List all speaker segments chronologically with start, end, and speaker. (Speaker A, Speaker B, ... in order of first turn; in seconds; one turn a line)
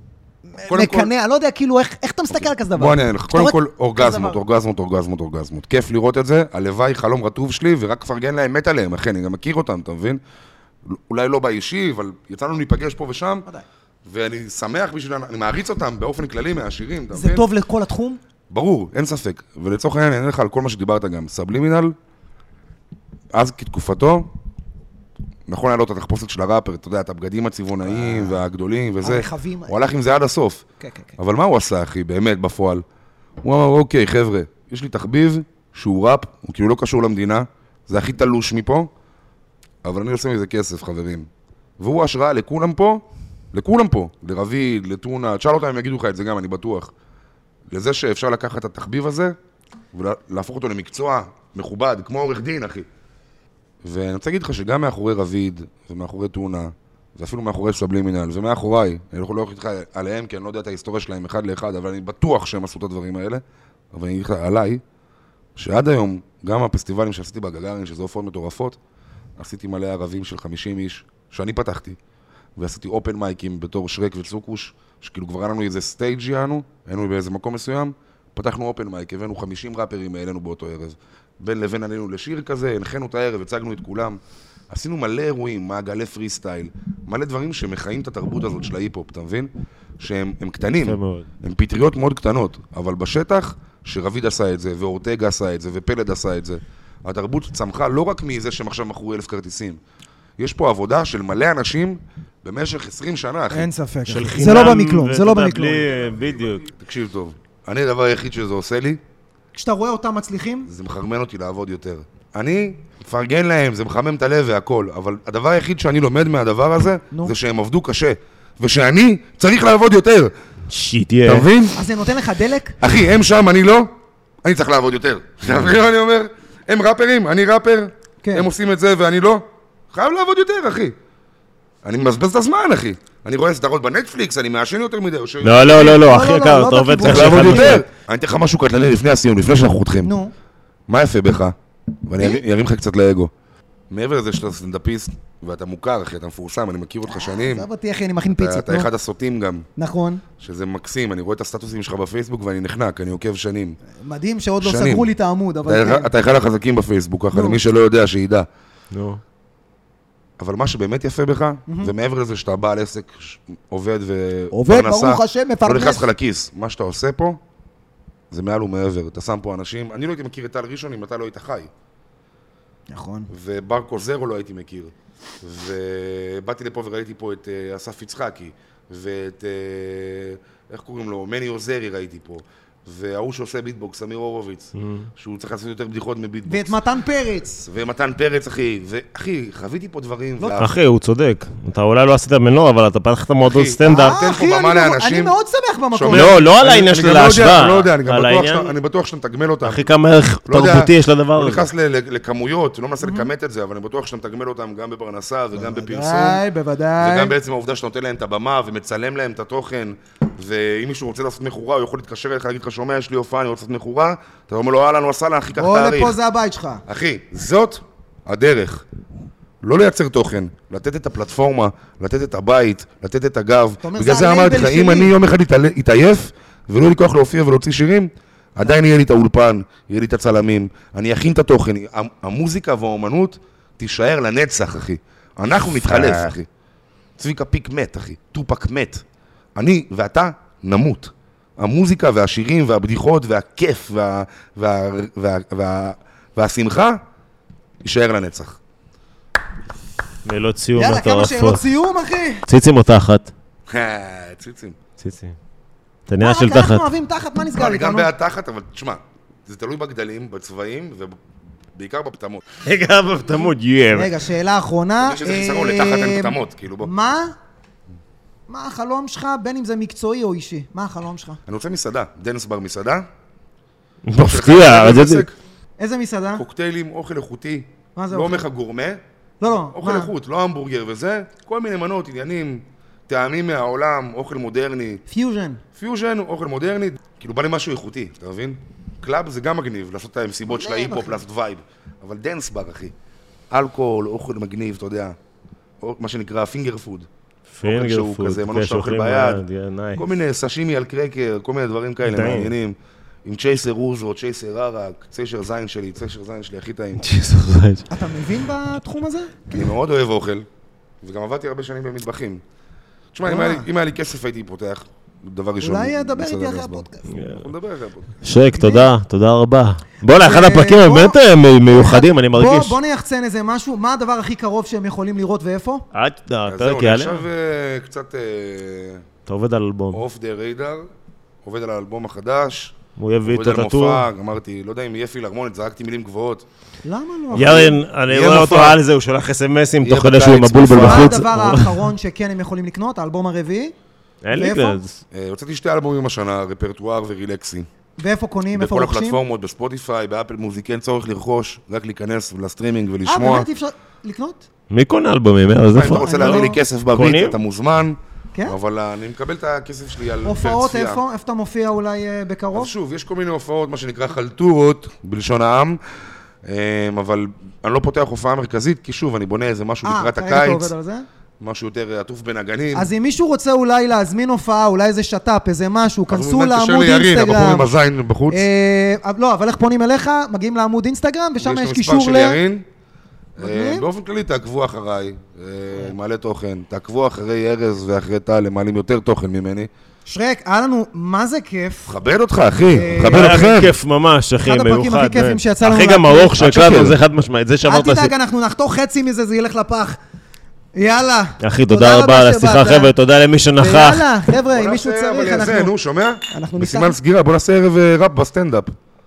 Speaker A: 0.5-4.4
Speaker B: 0.6-1.1
Speaker B: 2.7-10.2
Speaker B: 10.8-13.5
Speaker B: 14.1-17.4
Speaker A: 17.1-18.2
Speaker B: 18.5-21.9
Speaker B: 23.3-24.3
Speaker B: 25.5-30.6
Speaker A: 27.9-28.4
Speaker A: 29.0-29.7
Speaker A: 30.8-31.1
Speaker B: 31.2-32.8
Speaker B: 33.4-38.9
Speaker B: 39.8-41.3
Speaker B: 41.8-46.9
Speaker B: 47.7-49.3
Speaker B: 49.9-52.9
Speaker B: 53.8-64.8
Speaker B: 65.5-68.8
Speaker B: 69.4-72.0
Speaker B: 72.6-84.2
Speaker B: 84.7-99.8
Speaker C: 90.8-91.3
Speaker B: 100.4-103.7
Speaker A: 103.5-105.9
Speaker C: 104.1-106.7
Speaker B: 106.7-109.0
Speaker A: 109.5-110.7
Speaker B: 110.6-120.3
Speaker C: 120.7-121.5
Speaker B: 121.2-121.8
Speaker A: 121.7-122.8
Speaker B: 122.8-123.9
Speaker B: 124.4-130.9
Speaker A: 128.2-128.5
Speaker B: 131.8-136.0
Speaker C: 135.4-137.8
Speaker A: 135.7-137.8
Speaker B: 137.0-140.1
Speaker A: 140.0-140.3
Speaker B: 140.9-143.3
Speaker B: 143.9-147.7
Speaker A: 147.1-148.9
Speaker B: 148.3-149.7
Speaker A: 149.8-150.2
Speaker B: 150.4-153.8
Speaker A: 153.9-156.1
Speaker B: 154.6-155.1
Speaker B: 155.7-158.5
Speaker A: 157.3-157.6
Speaker C: 158.9-159.2
Speaker B: 160.4-167.4
Speaker A: 161.7-161.9
Speaker A: 164.5-166.1
Speaker B: 168.3-171.7
Speaker A: 172.9-173.3
Speaker B: 173.3-186.8
Speaker C: 184.8-185.1
Speaker A: 186.5-187.7
Speaker B: 187.6-190.7
Speaker A: 190.4-190.6
Speaker C: 190.6-194.2
Speaker B: 193.4-195.3
Speaker A: 193.8-196.4
Speaker B: 195.9-199.9
Speaker C: 196.1-198.7
Speaker C: 199.6-201.7
Speaker B: 200.5-206.4
Speaker A: 203.0-203.3
Speaker A: 205.6-207.3
Speaker B: 207.0-216.2
Speaker A: 215.5-216.8
Speaker B: 216.8-218.8
Speaker B: 219.6-236.5
Speaker A: 223.8-225.1
Speaker C: 235.8-236.3
Speaker B: 237.2-239.0
Speaker B: 239.6-247.0
Speaker B: 247.8-248.6
Speaker C: 250.2-251.6
Speaker A: 250.7-252.4
Speaker C: 252.4-253.3
Speaker B: 253.7-254.8
Speaker C: 255.0-255.3
Speaker C: 256.1-256.9
Speaker A: 256.2-258.1
Speaker B: 257.5-261.2
Speaker B: 261.7-262.4
Speaker C: 262.6-264.1
Speaker A: 263.9-267.3
Speaker B: 265.0-266.9
Speaker A: 268.5-271.4
Speaker B: 271.5-273.1
Speaker C: 274.1-275.2
Speaker B: 274.2-275.4
Speaker A: 275.8-276.4
Speaker B: 276.4-279.0
Speaker A: 277.9-278.4
Speaker A: 279.4-280.1
Speaker B: 279.7-285.0
Speaker A: 285.1-285.6
Speaker B: 285.7-292.9
Speaker A: 290.5-291.1
Speaker B: 293.5-295.1
Speaker B: 295.8-297.1
Speaker C: 297.5-300.1
Speaker B: 297.6-299.4
Speaker B: 299.9-307.0
Speaker C: 302.0-302.5
Speaker C: 307.0-307.9
Speaker A: 307.9-309.7
Speaker B: 309.5-310.4
Speaker B: 311.0-312.4
Speaker B: 313.1-318.1
Speaker A: 313.2-313.6
Speaker A: 315.6-317.1
Speaker C: 317.1-317.4
Speaker C: 318.2-322.8
Speaker A: 318.5-318.9
Speaker A: 320.0-321.2
Speaker A: 321.7-325.9
Speaker C: 325.9-327.3
Speaker B: 326.4-329.0
Speaker C: 329.3-330.0
Speaker B: 329.9-330.9
Speaker B: 331.4-336.4
Speaker C: 333.0-334.1
Speaker A: 336.8-337.8
Speaker C: 337.3-341.9
Speaker B: 337.3-338.8
Speaker B: 339.8-341.3
Speaker A: 340.7-343.7
Speaker C: 344.2-345.0
Speaker A: 344.3-344.8
Speaker B: 345.1-347.7
Speaker A: 348.0-349.2
Speaker B: 348.5-353.5
Speaker A: 353.0-354.4
Speaker C: 354.7-357.4
Speaker B: 355.7-361.0
Speaker A: 355.9-356.6
Speaker A: 360.2-362.7
Speaker B: 362.5-365.8
Speaker B: 366.4-370.7
Speaker A: 369.8-371.0
Speaker B: 371.4-372.9
Speaker A: 372.7-377.7
Speaker B: 376.1-378.4
Speaker A: 378.3-382.4
Speaker B: 381.4-382.6
Speaker B: 383.4-389.7
Speaker A: 383.4-383.9
Speaker A: 390.1-391.9
Speaker B: 391.9-393.7
Speaker A: 392.7-393.6
Speaker C: 393.0-398.1
Speaker A: 394.4-396.4
Speaker B: 396.4-397.0
Speaker A: 397.6-400.0
Speaker A: 400.7-402.9
Speaker C: 401.4-404.1
Speaker A: 403.6-405.7
Speaker B: 404.5-408.7
Speaker A: 406.3-406.9